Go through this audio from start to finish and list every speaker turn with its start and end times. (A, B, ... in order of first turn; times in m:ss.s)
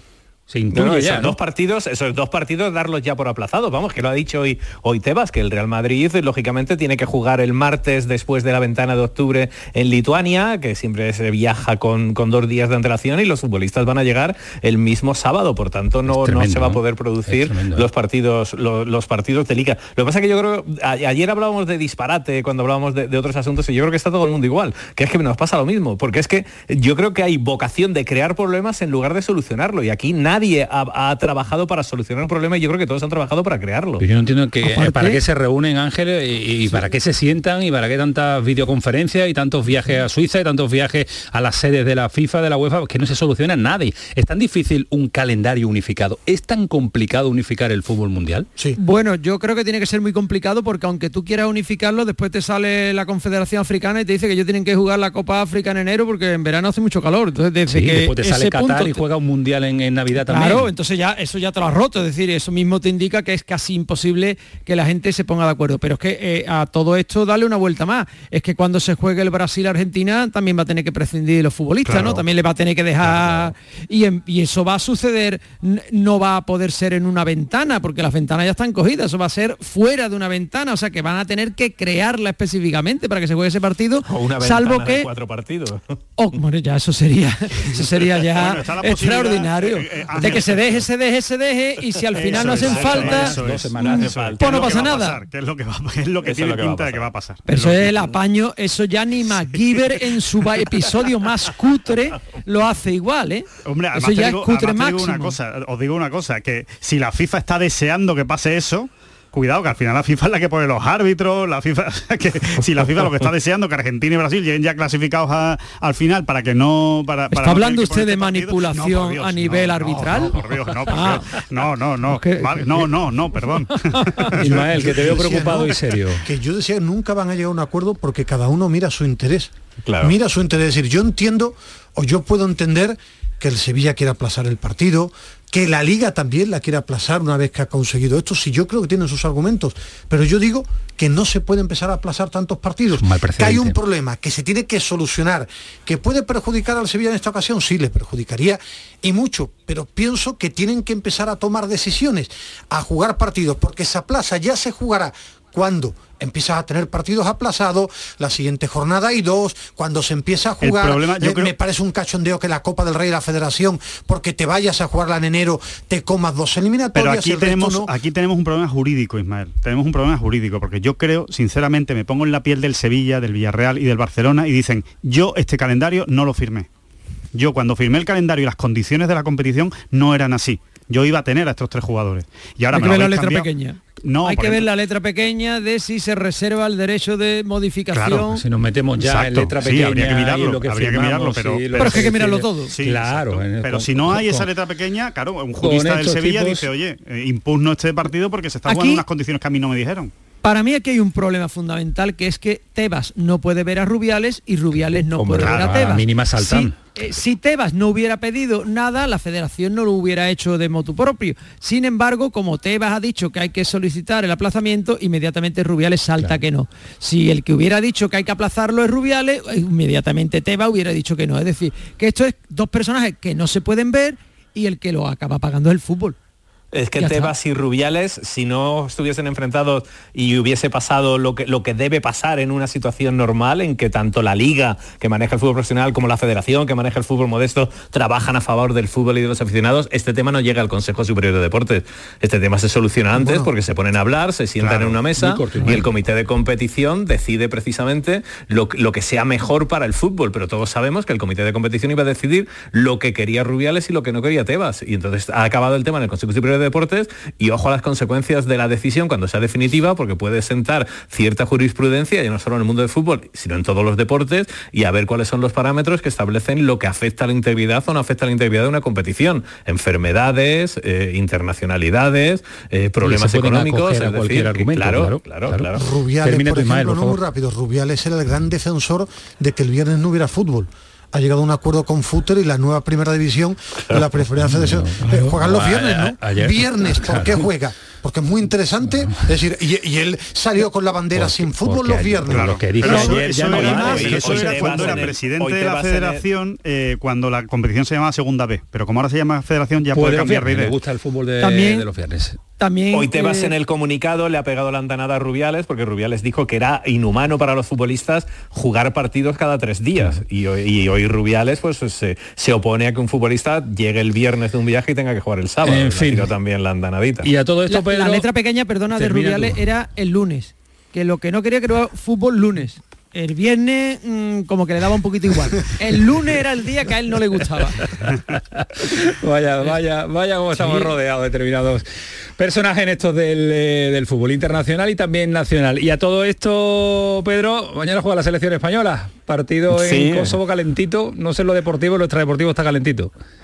0:00.5-0:01.4 A
0:00.7-0:34.0 B
0:16.1-0:17.9 A
0:34.0-0:48.5 A
0:34.6-0:35.2 C
0:48.8-0:59.0 C
0:57.7-1:00.7 A
1:00.3-1:25.1 C
1:11.9-1:12.2 D
1:24.1-1:26.0 B
1:26.2-1:35.2 C
1:28.2-1:30.8 D
1:32.2-1:37.8 D
1:32.4-1:34.7 A
1:32.5-1:34.8 B
1:36.2-1:37.1 B
1:37.5-1:45.4 C
1:43.7-2:05.0 D
1:57.3-2:01.3 C
2:02.1-2:02.9 C
2:03.9-2:04.3 C
2:04.4-2:06.2 A
2:04.6-2:47.9 E
2:09.9-2:10.2 B
2:22.9-2:23.8 A
2:40.6-2:41.5 D
2:47.0-2:56.7 D
2:57.3-3:03.5 D
3:02.7-3:08.4 C
3:04.0-3:04.7 D
3:07.9-3:08.3 D
3:08.3-3:14.5 A
3:09.0-3:20.1 D
3:11.8-3:12.7 C
3:15.6-3:16.7 A
3:18.7-3:19.0 C
3:20.4-3:46.2 C
3:25.2-3:26.8 A
3:25.4-3:26.0 D
3:46.7-4:35.8 B
3:47.0-3:47.3 C
4:03.2-4:03.5 E
4:04.6-4:05.0 D
4:05.2-4:05.9 A
4:33.0-4:35.7 A
4:35.8-4:52.7 E
4:36.2-4:37.2 A
4:44.4-4:47.5 A
4:51.2-4:55.1 A
4:52.3-5:00.8 D
4:52.8-4:54.2 C
4:53.4-4:56.2 B
4:59.9-5:02.4 A
5:01.4-5:01.9 C
5:02.6-5:03.5 C
5:02.9-5:17.3 B
5:15.6-5:16.3 A
5:17.2-5:18.3 A
5:17.7-5:27.9 C
5:18.9-5:19.6 A
5:28.1-5:31.8 A
5:30.5-5:30.9 C
5:32.4-5:43.1 A
5:39.7-5:40.4 B